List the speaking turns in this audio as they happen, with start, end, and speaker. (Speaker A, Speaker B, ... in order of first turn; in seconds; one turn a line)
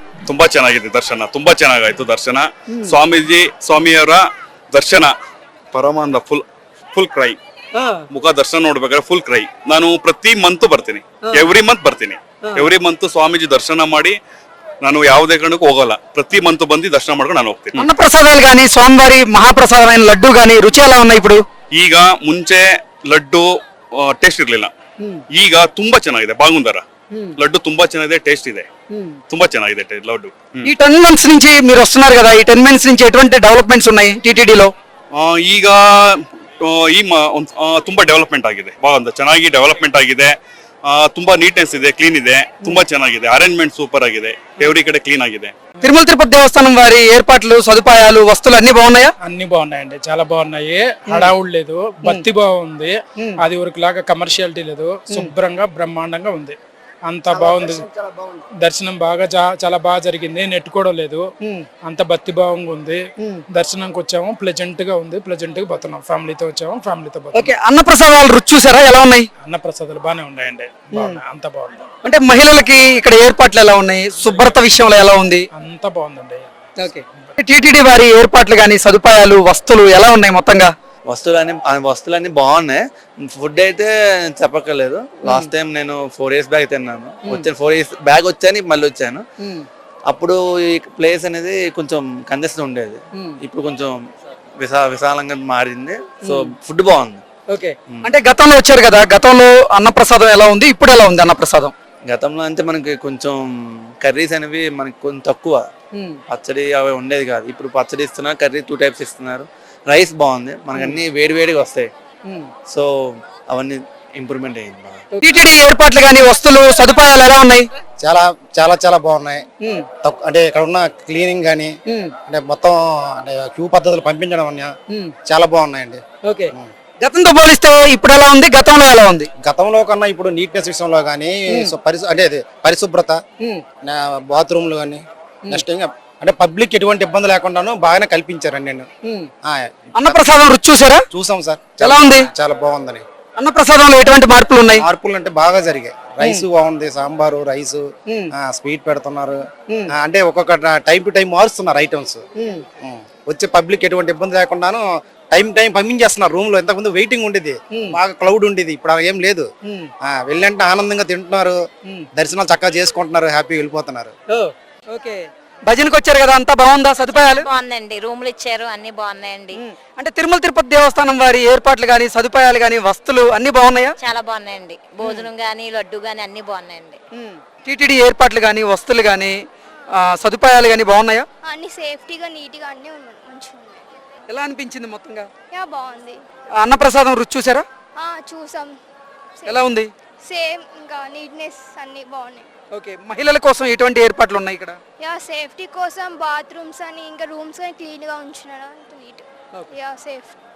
Speaker A: 0.3-5.1
Speaker A: 5.7-6.4
Speaker A: 7.0-7.4
Speaker A: 8.1-14.2
Speaker A: 14.8-17.9
Speaker B: 17.8-21.4
Speaker A: 21.8-23.5
Speaker A: 24.0-24.7
Speaker A: 25.3-26.8
Speaker A: 27.4-28.7
Speaker A: 29.3-30.7
Speaker B: 30.6-34.7
Speaker A: 35.1-40.3
Speaker A: 40.9-45.6
Speaker B: 45.8-49.1
Speaker C: 49.2-56.6
Speaker C: 57.1-57.9
Speaker C: 58.6-61.3
Speaker C: 61.8-67.5
Speaker B: 67.3-69.2
Speaker C: 69.4-71.9
Speaker B: 71.0-71.2
Speaker B: 72.0-75.5
Speaker C: 75.5-76.5
Speaker B: 76.8-80.7
Speaker D: 81.1-89.2
Speaker D: 90.1-94.0
Speaker D: 94.6-97.2
Speaker B: 97.5-101.7
Speaker D: 102.0-105.6
Speaker D: 106.3-111.9
Speaker D: 112.7-115.0
Speaker B: 115.2-117.7
Speaker E: 118.0-119.4
Speaker E: 120.0-121.7
Speaker E: 122.3-124.7
Speaker E: 125.3-126.0
Speaker B: 126.3-129.3
Speaker E: 129.4-133.2
Speaker E: 133.9-138.9
Speaker E: 139.4-140.2
Speaker B: 140.0-141.0
Speaker E: 141.1-143.0
Speaker B: 141.8-142.3
Speaker B: 143.4-144.9
Speaker E: 144.7-147.8
Speaker E: 148.4-149.4
Speaker E: 149.9-152.2
Speaker B: 152.4-152.7
Speaker E: 152.8-159.5
Speaker E: 160.1-161.6
Speaker E: 162.2-164.1
Speaker B: 164.3-167.5
Speaker F: 167.1-169.6
Speaker B: 169.6-173.9
Speaker F: 174.0-177.0
Speaker B: 175.0-175.3
Speaker B: 177.1-179.4
Speaker B: 180.0-181.3
Speaker G: 181.4-183.8
Speaker B: 184.3-185.3
Speaker G: 185.5-186.2
Speaker B: 186.6-187.7
Speaker G: 188.0-188.8
Speaker G: 189.4-189.7
Speaker B: 189.5-189.9
Speaker G: 190.2-192.5
Speaker B: 192.7-194.8
Speaker G: 195.0-200.3